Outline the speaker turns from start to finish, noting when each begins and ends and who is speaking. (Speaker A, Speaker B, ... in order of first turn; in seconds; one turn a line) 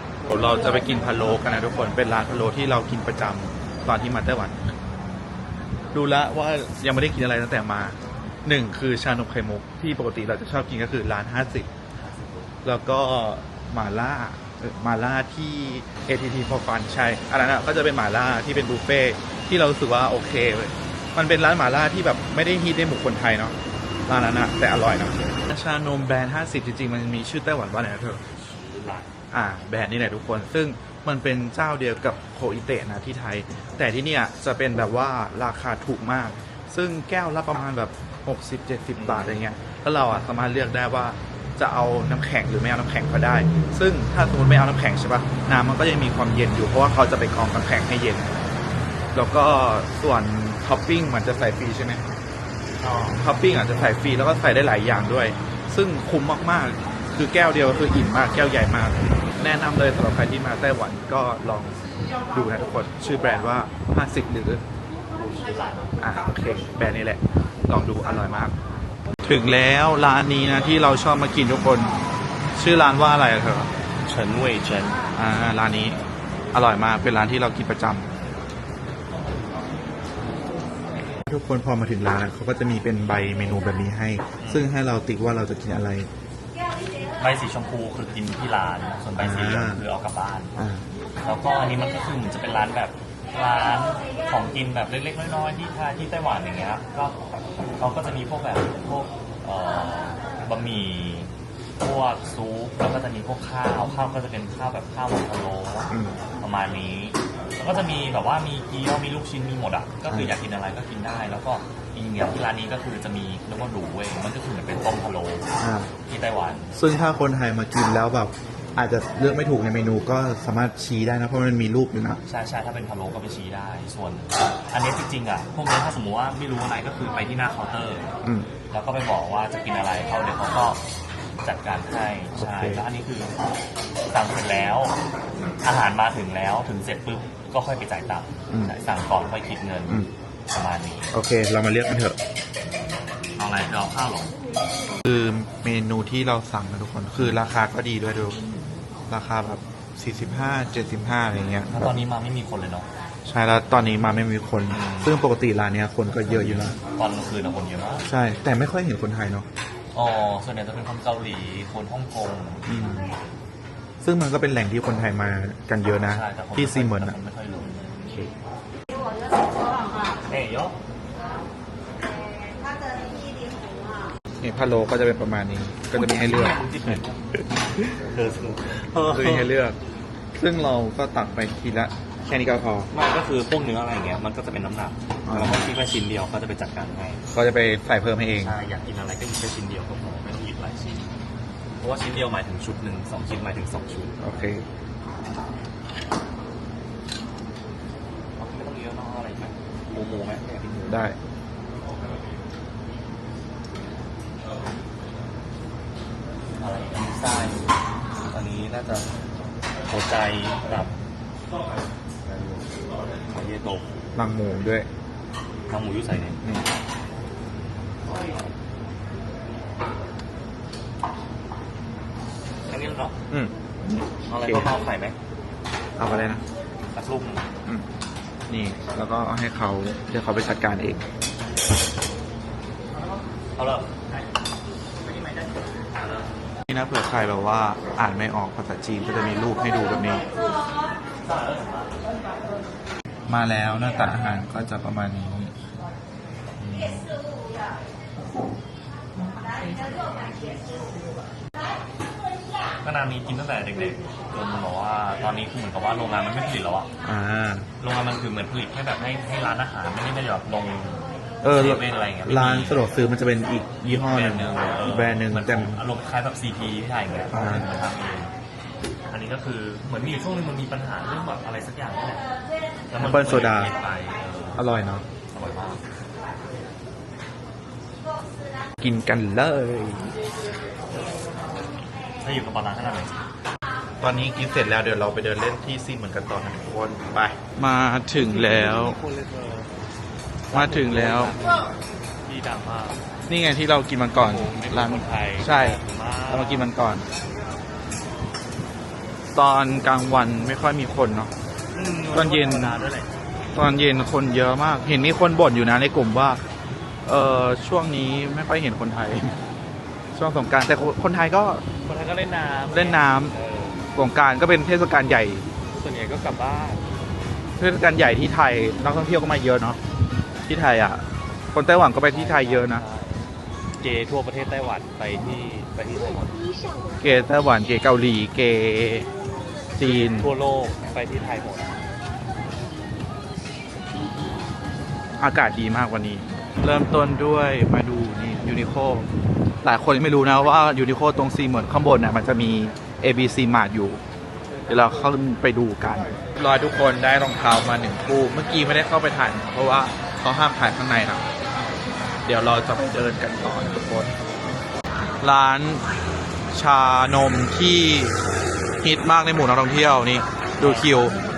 Speaker A: 0.2-4.6
Speaker A: 5.9-11.7
Speaker B: 12.0-12.5
Speaker A: 12.6-23.5
Speaker A: 24.1-28.2
Speaker B: 28.4-29.1
Speaker A: 29.3-48.3
Speaker B: 39.0-39.4
Speaker A: 49.1-52.0
Speaker B: 52.8-53.2
Speaker A: 53.1-61.8
Speaker A: 62.3-64.6
Speaker B: 65.2-65.8
Speaker A: 66.0-68.5
Speaker A: 69.2-71.9
Speaker A: 72.6-73.7
Speaker B: 74.0-75.0
Speaker A: 75.1-76.0
Speaker A: 76.5-78.1
Speaker A: 81.3-86.1
Speaker B: 84.4-84.7
Speaker B: 87.2-90.5
Speaker A: 89.2-89.8
Speaker A: 90.5-90.8
Speaker B: 91.2-97.2
Speaker B: 97.8-115.5
Speaker A: 105.9-106.2
Speaker A: 110.1-110.3
Speaker A: 115.6-115.9
Speaker B: 116.1-116.7
Speaker A: 116.7-122.2
Speaker B: 122.2-128.1
Speaker A: 128.2-128.5
Speaker B: 128.7-130.8
Speaker B: 131.4-133.3
Speaker A: 132.3-132.8
Speaker B: 134.1-135.0
Speaker B: 135.6-141.1
Speaker A: 141.1-142.2
Speaker B: 143.4-144.3
Speaker A: 145.0-148.4
Speaker A: 149.1-151.7
Speaker B: 151.7-152.9
Speaker A: 153.2-156.8
Speaker B: 154.7-155.2
Speaker B: 156.3-158.1
Speaker A: 158.1-159.4
Speaker B: 159.9-163.2
Speaker A: 162.7-163.1
Speaker A: 164.0-167.2
Speaker B: 165.9-167.9
Speaker A: 168.1-168.3
Speaker B: 170.3-170.8
Speaker A: 174.4-177.0
Speaker B: 175.9-179.5
Speaker A: 179.1-179.8
Speaker A: 180.3-182.9
Speaker B: 182.9-187.2
Speaker A: 185.2-185.6
Speaker A: 187.3-188.6
Speaker B: 188.4-191.1
Speaker B: 191.8-194.1
Speaker A: 194.2-194.6
Speaker B: 198.4-201.0
Speaker A: 200.9-201.2
Speaker B: 206.6-207.7
Speaker B: 208.3-209.1
Speaker B: 209.9-211.0
Speaker B: 212.2-213.9
Speaker A: 214.1-214.9
Speaker B: 215.7-216.4
Speaker B: 222.7-223.2
Speaker A: 223.3-224.7
Speaker B: 224.3-225.2
Speaker A: 226.0-226.4
Speaker B: 226.9-227.5
Speaker A: 228.5-231.0
Speaker B: 233.6-234.2
Speaker B: 235.1-236.5
Speaker A: 236.7-240.2
Speaker B: 241.3-242.0
Speaker A: 243.3-245.5
Speaker B: 246.6-247.1
Speaker B: 252.8-256.9
Speaker A: 257.1-257.7
Speaker B: 257.8-262.8
Speaker A: 261.4-265.8
Speaker B: 263.9-268.3
Speaker A: 267.3-267.7
Speaker B: 269.1-272.2
Speaker B: 272.9-274.6
Speaker A: 273.0-273.7
Speaker A: 274.6-275.1
Speaker B: 275.3-275.8
Speaker A: 278.8-280.1
Speaker B: 282.2-283.2
Speaker A: 284.0-289.0
Speaker B: 288.2-289.7
Speaker B: 290.5-291.7
Speaker A: 290.5-291.4
Speaker B: 292.2-293.0
Speaker A: 293.3-297.0
Speaker B: 294.1-296.7
Speaker A: 299.3-301.3
Speaker B: 301.7-303.1
Speaker A: 302.1-302.8
Speaker A: 303.5-306.4
Speaker A: 307.0-309.4
Speaker A: 310.1-311.6
Speaker B: 311.8-313.8
Speaker A: 312.7-313.3
Speaker A: 313.9-315.5
Speaker B: 315.7-316.9
Speaker A: 317.6-319.8
Speaker A: 320.4-322.8
Speaker B: 322.1-323.2
Speaker B: 323.8-326.4
Speaker A: 327.0-329.1
Speaker A: 329.8-330.3
Speaker B: 329.8-331.8
Speaker A: 335.2-339.1
Speaker A: 339.6-344.0
Speaker A: 344.7-351.2
Speaker A: 352.2-354.1
Speaker A: 355.2-355.8
Speaker A: 356.5-358.1
Speaker A: 358.8-361.2
Speaker B: 360.6-361.1